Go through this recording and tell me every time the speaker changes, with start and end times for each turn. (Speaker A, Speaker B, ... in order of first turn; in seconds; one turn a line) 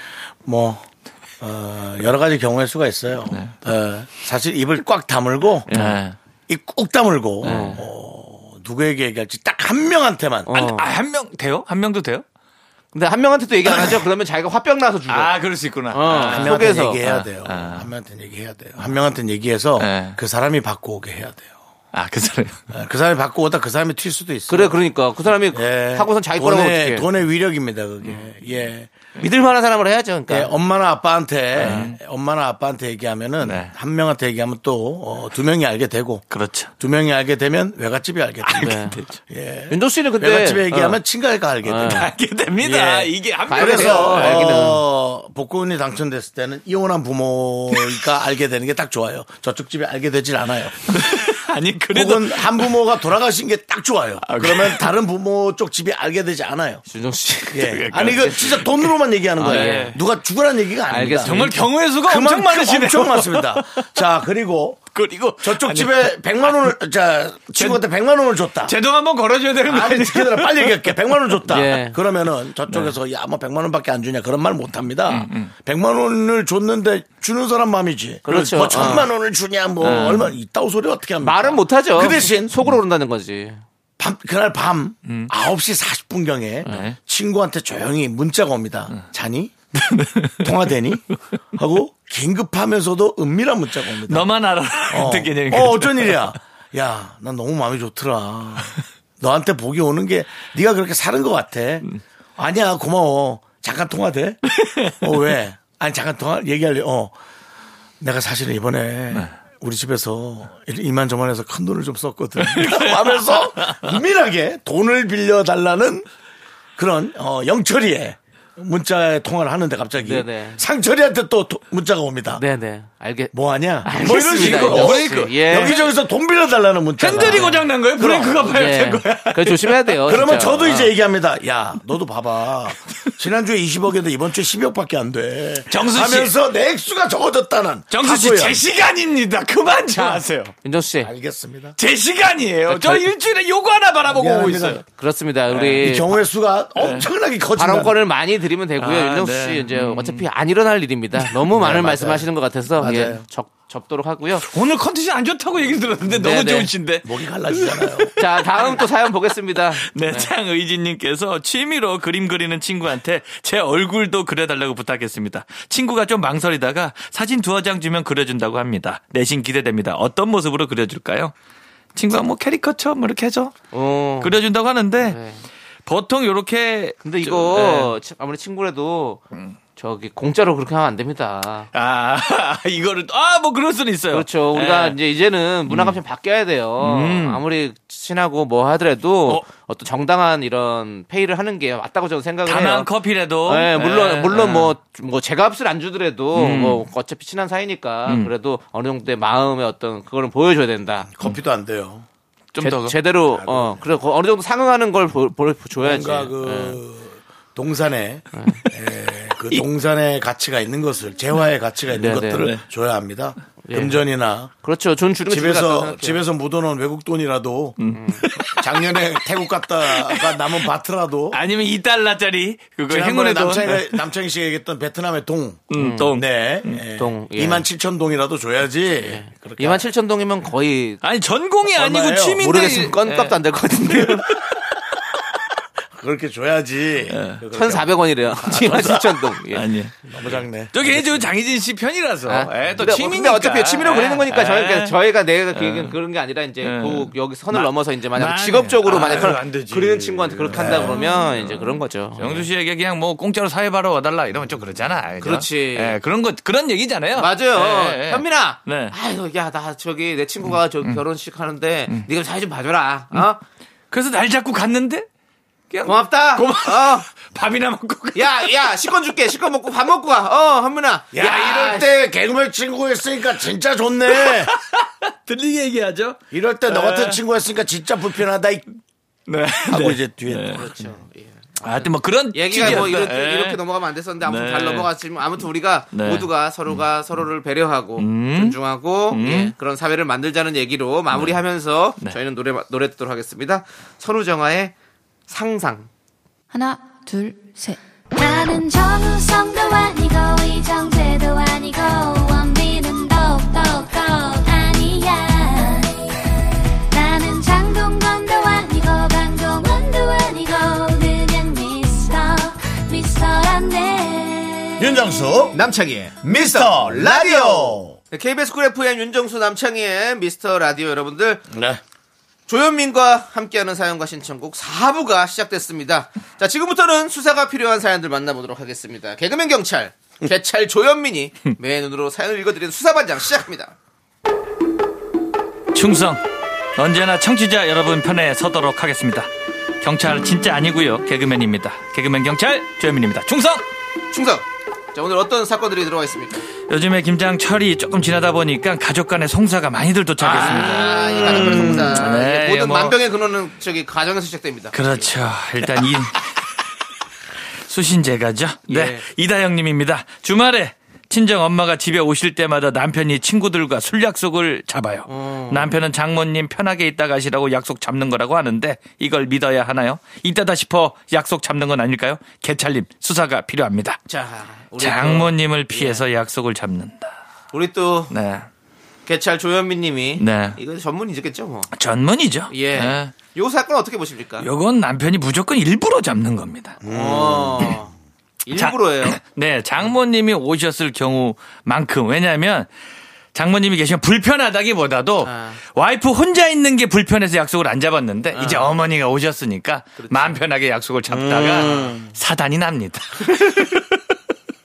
Speaker A: 0.5-0.9
Speaker A: 1.4-5.7
Speaker B: 3.3-3.5
Speaker C: 5.7-6.0
Speaker B: 5.7-6.2
Speaker A: 6.5-10.5
Speaker B: 7.4-7.8
Speaker C: 7.4-7.8
Speaker C: 10.5-10.9
Speaker B: 10.5-12.2
Speaker C: 12.9-15.3
Speaker B: 15.1-17.9
Speaker C: 15.9-17.0
Speaker A: 16.1-21.5
Speaker B: 19.8-20.2
Speaker B: 21.9-22.6
Speaker A: 22.7-24.8
Speaker C: 24.5-27.1
Speaker A: 25.5-28.9
Speaker C: 29.2-30.5
Speaker A: 30.3-36.2
Speaker B: 31.6-32.0
Speaker C: 31.6-31.9
Speaker B: 33.4-33.7
Speaker B: 36.3-36.7
Speaker A: 36.8-42.1
Speaker C: 38.5-39.0
Speaker B: 38.5-39.2
Speaker C: 39.7-41.0
Speaker C: 41.6-42.1
Speaker B: 41.8-44.7
Speaker A: 42.6-51.3
Speaker C: 43.5-44.8
Speaker B: 50.9-52.7
Speaker A: 51.9-56.8
Speaker B: 54.2-54.9
Speaker C: 56.9-58.6
Speaker A: 57.5-64.9
Speaker B: 57.7-58.7
Speaker C: 59.4-60.0
Speaker B: 59.4-60.0
Speaker C: 60.9-61.6
Speaker B: 61.2-64.0
Speaker B: 64.9-66.7
Speaker A: 65.4-68.7
Speaker B: 68.6-71.0
Speaker A: 69.7-82.6
Speaker C: 71.5-72.0
Speaker B: 75.1-75.5
Speaker C: 78.3-79.1
Speaker C: 79.8-80.3
Speaker B: 79.8-80.3
Speaker C: 81.2-83.6
Speaker A: 84.0-89.6
Speaker B: 85.1-85.3
Speaker B: 86.7-87.0
Speaker B: 89.8-90.5
Speaker A: 90.4-94.3
Speaker B: 94.1-96.3
Speaker A: 94.9-101.9
Speaker A: 102.4-104.4
Speaker B: 104.5-105.0
Speaker A: 105.0-107.1
Speaker A: 108.0-116.1
Speaker B: 112.4-113.9
Speaker A: 116.8-122.4
Speaker C: 120.0-120.6
Speaker C: 122.3-125.8
Speaker A: 123.3-128.4
Speaker B: 124.0-125.8
Speaker B: 127.0-130.0
Speaker C: 127.1-127.7
Speaker C: 128.4-130.9
Speaker A: 130.1-138.6
Speaker B: 135.7-136.3
Speaker B: 137.9-140.5
Speaker A: 140.0-140.2
Speaker C: 140.6-141.1
Speaker A: 141.0-141.8
Speaker B: 141.8-144.8
Speaker A: 142.7-143.1
Speaker A: 144.1-144.8
Speaker C: 145.0-146.2
Speaker B: 145.5-145.8
Speaker A: 145.8-147.9
Speaker B: 146.8-147.1
Speaker C: 147.6-154.5
Speaker B: 148.8-150.3
Speaker A: 151.5-152.3
Speaker A: 152.8-153.2
Speaker B: 154.4-158.8
Speaker C: 156.1-156.7
Speaker A: 157.0-158.1
Speaker C: 158.2-160.3
Speaker B: 159.8-171.3
Speaker B: 171.9-173.6
Speaker C: 173.7-174.3
Speaker B: 174.2-175.2
Speaker C: 175.0-175.4
Speaker B: 175.9-177.9
Speaker C: 177.0-179.2
Speaker C: 179.8-181.7
Speaker B: 181.7-185.0
Speaker C: 184.1-192.9
Speaker B: 185.7-186.0
Speaker B: 186.8-187.4
Speaker B: 192.5-194.7
Speaker C: 193.4-201.1
Speaker B: 196.3-196.9
Speaker B: 198.1-198.3
Speaker A: 201.1-202.1
Speaker B: 202.5-203.0
Speaker C: 202.6-206.8
Speaker A: 203.3-203.8
Speaker A: 205.8-214.5
Speaker C: 208.3-208.6
Speaker C: 212.0-212.5
Speaker C: 213.6-214.0
Speaker C: 214.6-216.2
Speaker A: 215.3-217.8
Speaker B: 217.8-219.0
Speaker C: 217.9-218.3
Speaker A: 218.5-221.4
Speaker B: 219.8-220.6
Speaker B: 221.3-224.0
Speaker A: 222.9-229.9
Speaker B: 225.7-226.8
Speaker C: 225.7-226.2
Speaker C: 227.0-227.7
Speaker C: 229.0-231.0
Speaker B: 231.0-233.4
Speaker A: 231.7-232.4
Speaker C: 232.4-234.4
Speaker B: 233.9-234.2
Speaker A: 235.9-237.9
Speaker B: 237.1-237.4
Speaker C: 237.5-239.7
Speaker A: 238.4-239.0
Speaker B: 238.7-245.0
Speaker A: 240.1-241.3
Speaker C: 242.3-252.5
Speaker B: 245.6-245.9
Speaker B: 246.6-258.9
Speaker A: 250.5-251.0
Speaker C: 255.2-256.0
Speaker C: 257.1-263.4
Speaker B: 263.9-265.1
Speaker B: 265.7-268.5
Speaker C: 265.9-267.1
Speaker C: 268.1-271.9
Speaker A: 271.1-274.5
Speaker B: 274.1-277.2
Speaker A: 276.3-278.6
Speaker B: 279.3-280.7
Speaker A: 279.7-280.7
Speaker C: 280.5-294.7
Speaker B: 281.6-283.6
Speaker B: 284.2-284.9
Speaker B: 285.9-286.3
Speaker B: 288.0-288.6
Speaker B: 289.1-289.5
Speaker B: 291.1-291.4
Speaker C: 295.3-295.9
Speaker D: 296.5-306.3
Speaker D: 306.9-314.9
Speaker A: 314.8-315.6
Speaker C: 315.5-321.4
Speaker A: 316.2-318.0
Speaker A: 321.5-321.8
Speaker C: 322.5-333.7
Speaker B: 335.7-336.2
Speaker B: 336.8-339.3
Speaker B: 339.8-343.6
Speaker C: 344.1-346.4
Speaker B: 346.7-353.0
Speaker C: 350.2-355.1
Speaker A: 351.2-351.9
Speaker B: 354.7-356.3
Speaker B: 357.7-374.0
Speaker C: 358.7-359.1
Speaker C: 365.1-365.8
Speaker C: 374.1-376.1
Speaker B: 374.8-377.1
Speaker C: 377.5-378.1
Speaker B: 378.1-378.5
Speaker C: 379.1-381.7
Speaker B: 380.2-380.6
Speaker B: 381.7-383.1
Speaker C: 382.5-384.5
Speaker B: 384.4-386.8
Speaker A: 386.8-387.8
Speaker C: 386.9-387.9
Speaker C: 388.4-389.2
Speaker B: 388.5-392.7
Speaker B: 393.3-404.0
Speaker C: 395.2-395.6
Speaker C: 398.3-398.8
Speaker C: 400.0-400.4
Speaker A: 401.1-402.1